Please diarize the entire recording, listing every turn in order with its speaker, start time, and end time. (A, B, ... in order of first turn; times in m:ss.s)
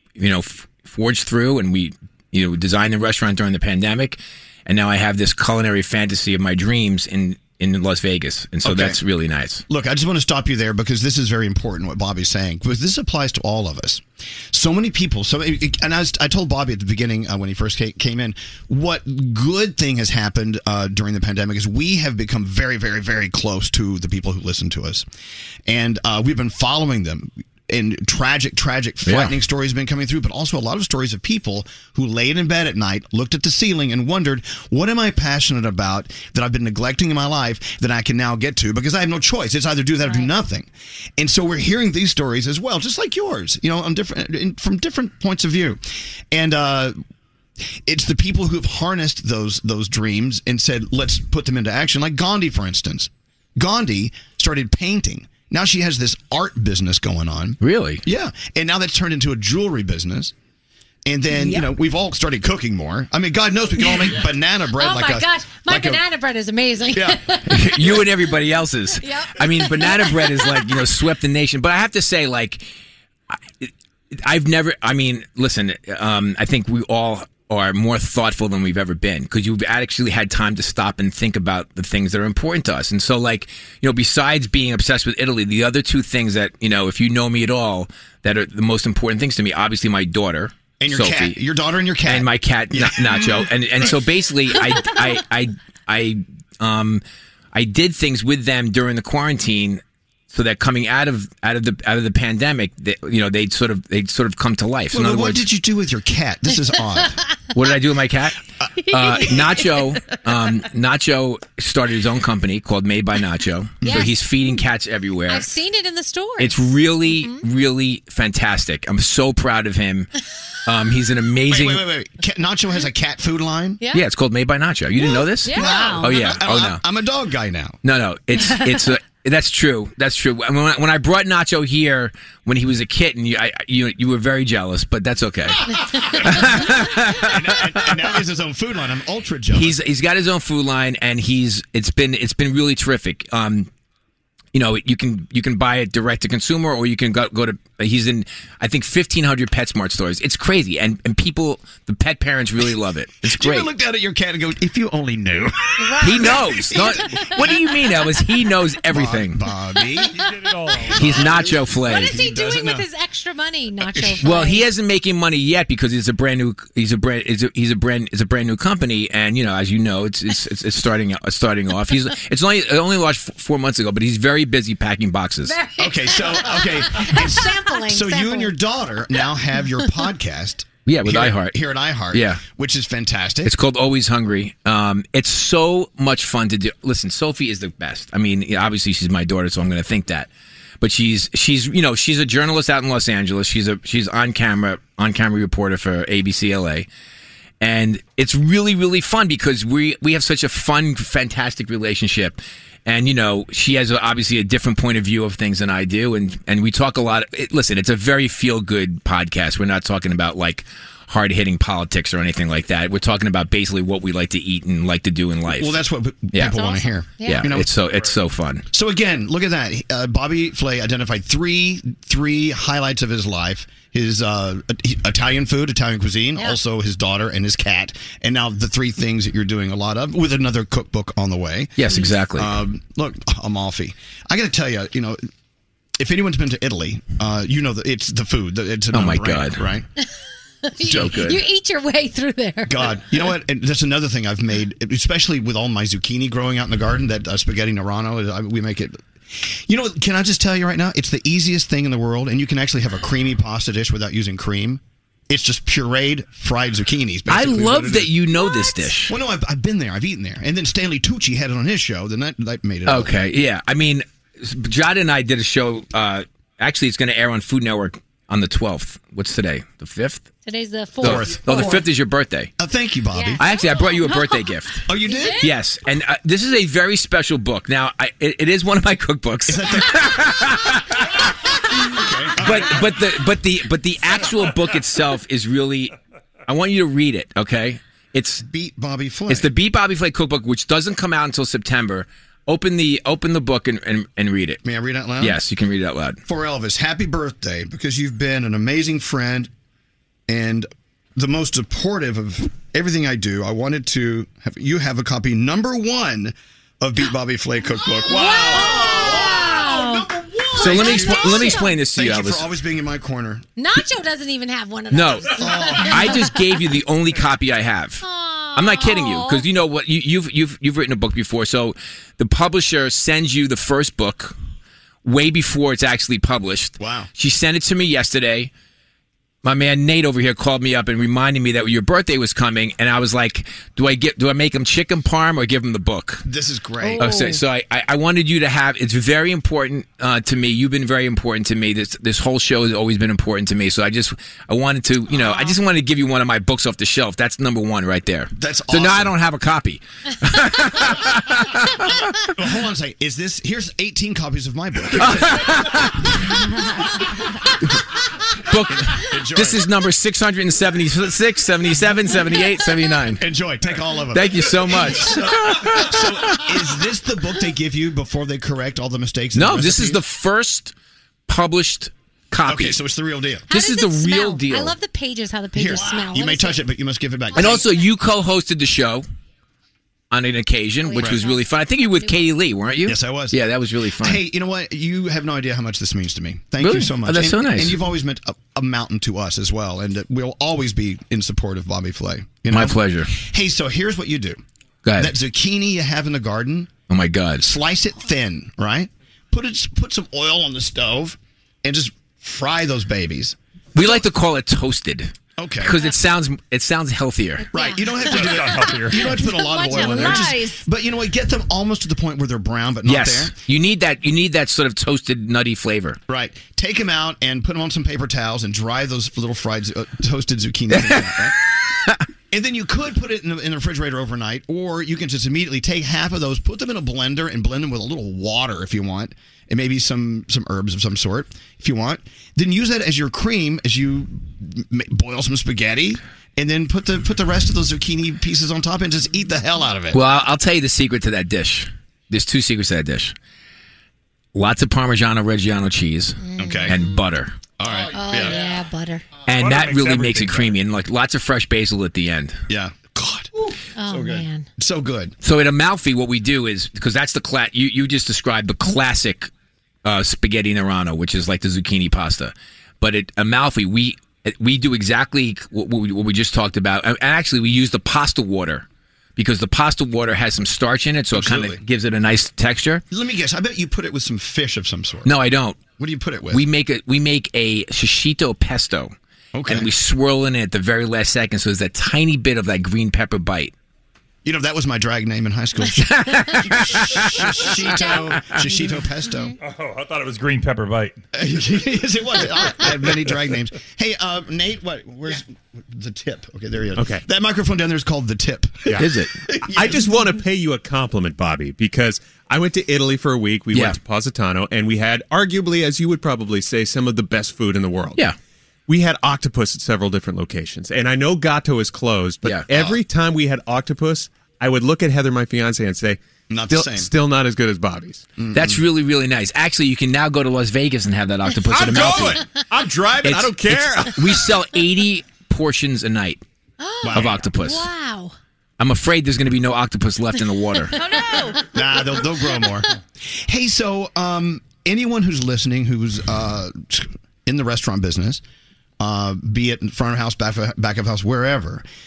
0:00.2-0:09.6 A
0:08.6-0:09.0 B
0:09.7-0:25.1 B
0:25.7-0:47.0 B
0:29.0-0:29.3 A
0:40.1-0:40.3 C
0:47.8-1:00.3 B
0:57.6-0:58.0 A
1:01.0-1:06.0 B
1:01.3-1:01.7 C
1:03.8-1:04.2 C
1:04.8-1:08.0 C
1:06.9-1:07.3 B
1:07.5-1:12.7 A
1:09.0-1:10.9 C
1:13.3-1:31.4 A
1:30.8-1:33.6 B
1:32.0-1:37.0 A
1:37.5-1:45.5 A
1:44.9-1:47.2 B
1:47.5-1:48.4 A
1:48.9-1:55.5 A
1:53.8-1:54.1 B
1:53.8-1:54.2 C
1:55.3-1:57.4 C
1:56.4-2:00.1 A
2:00.7-2:01.8 A
2:01.5-2:03.8 B
2:03.8-2:04.1 C
2:03.9-2:06.8 A
2:05.0-2:06.2 C
2:05.5-2:07.8 B
2:07.8-2:17.6 A
2:08.4-2:08.7 C
2:16.2-2:19.8 B
2:19.5-2:23.7 A
2:24.5-2:33.7 A
2:33.2-2:37.6 B
2:35.8-2:38.0 C
2:36.0-2:39.4 A
2:38.9-2:40.3 B
2:40.2-2:41.3 D
2:40.9-2:42.9 B
2:40.9-2:42.2 A
2:41.8-2:44.7 C
2:43.9-2:44.3 B
2:44.2-2:55.6 A
2:55.4-2:58.6 C
2:55.8-3:03.6 B
3:00.9-3:01.6 A
3:02.1-3:02.4 A
3:03.4-3:10.3 A
3:10.8-3:16.9 A
3:17.6-3:35.8 A
3:35.5-3:37.7 B
3:36.3-3:36.6 A
3:36.4-3:37.6 C
3:37.3-3:38.6 A
3:38.7-3:55.2 B
3:51.8-3:52.6 A
3:56.0-3:59.9 B
3:58.9-3:59.7 A
4:00.7-4:03.0 C
4:00.8-4:01.4 A
4:00.8-4:01.3 B
4:02.7-4:18.3 B
4:17.3-4:19.1 A
4:18.4-4:18.8 C
4:19.1-4:23.2 B
4:22.9-4:30.3 A
4:30.5-4:31.8 C
4:31.0-4:31.8 B
4:31.0-4:32.5 A
4:32.6-4:33.5 B
4:33.1-4:35.6 C
4:33.4-4:34.8 A
4:34.9-4:35.5 B
4:35.4-4:40.8 A
4:39.5-4:40.2 B
4:41.9-4:43.0 B
4:42.4-4:45.9 A
4:46.5-4:48.4 A
4:48.4-4:49.5 B
4:49.3-4:54.6 A
4:54.6-4:55.4 B
4:55.2-4:56.2 A
4:56.3-4:59.5 B
5:00.3-5:09.6 B
5:08.0-5:11.8 C
5:10.5-5:13.5 B
5:10.6-5:12.5 A
5:13.6-5:16.6 C
5:14.9-5:18.0 A
5:15.3-5:16.2 B
5:18.0-5:19.5 C
5:18.6-5:24.3 A
5:25.0-5:28.5 A
5:26.8-5:27.1 B
5:29.4-5:36.2 A
5:36.2-5:37.3 B
5:36.8-5:37.4 C
5:37.0-5:51.9 A
5:45.2-5:45.6 C
5:48.4-5:49.1 B
5:52.3-5:55.8 B
5:55.0-5:56.0 A
5:58.5-6:03.2 A
5:58.7-5:59.7 B
6:03.2-6:10.0 B
6:04.1-6:06.2 A
6:09.3-6:10.7 A
6:11.3-6:12.8 A
6:12.4-6:13.5 B
6:13.5-6:16.7 C
6:13.5-6:14.8 A
6:15.5-6:17.7 B
6:17.3-6:17.9 C
6:17.4-6:19.0 A
6:20.1-6:24.2 A
6:20.8-6:22.3 C
6:21.0-6:21.2 B
6:22.8-6:23.4 B
6:24.0-6:34.4 B
6:26.6-6:27.8 A
6:32.5-6:33.1 A
6:34.8-6:35.1 A
6:35.0-6:36.7 B
6:36.9-6:37.5 A
6:37.4-6:44.0 B
6:43.8-6:47.5 A
6:45.4-6:45.8 B
6:47.4-6:50.6 C
6:47.5-6:53.3 B
6:48.1-6:49.0 D
6:52.8-6:56.0 A
6:56.1-7:01.4 B
7:00.7-7:01.3 A
7:02.3-7:20.0 B
7:19.9-7:23.1 A
7:24.3-7:27.4 A
7:26.2-7:27.0 C
7:26.4-7:26.8 B
7:27.6-7:28.4 B
7:27.9-7:29.1 C
7:29.3-7:32.4 A
7:29.3-7:30.5 B
7:32.5-7:33.3 B
7:33.8-7:34.5 C
7:33.9-7:35.1 B
7:35.2-7:39.3 A
7:39.8-7:52.8 A
7:51.1-7:51.6 B
7:52.9-7:55.1 B
7:55.0-7:55.6 A
7:55.8-7:56.5 B
7:56.3-7:59.0 A
7:59.3-7:59.7 B
7:59.5-8:03.5 A
8:04.2-8:09.3 B
8:06.0-8:07.5 A
8:06.1-8:09.3 C
8:09.4-8:11.0 D
8:11.1-8:20.0 B
8:16.8-8:17.0 E
8:18.7-8:19.0 E
8:18.8-8:19.1 A
8:19.5-8:28.0 E
8:23.5-8:23.8 A
8:28.7-8:38.1 E
8:32.2-8:32.5 A
8:32.5-8:32.8 B
8:36.3-8:36.9 B
8:38.2-8:38.6 B
8:38.3-8:42.3 A
8:41.5-8:44.0 E
8:43.0-8:46.2 A
8:46.6-8:48.1 C
8:46.8-8:47.2 B
8:46.9-8:47.7 A
8:48.6-8:50.8 A
8:50.6-8:52.6 C
8:51.5-8:52.7 B
8:53.2-8:58.2 B
8:58.8-9:01.6 B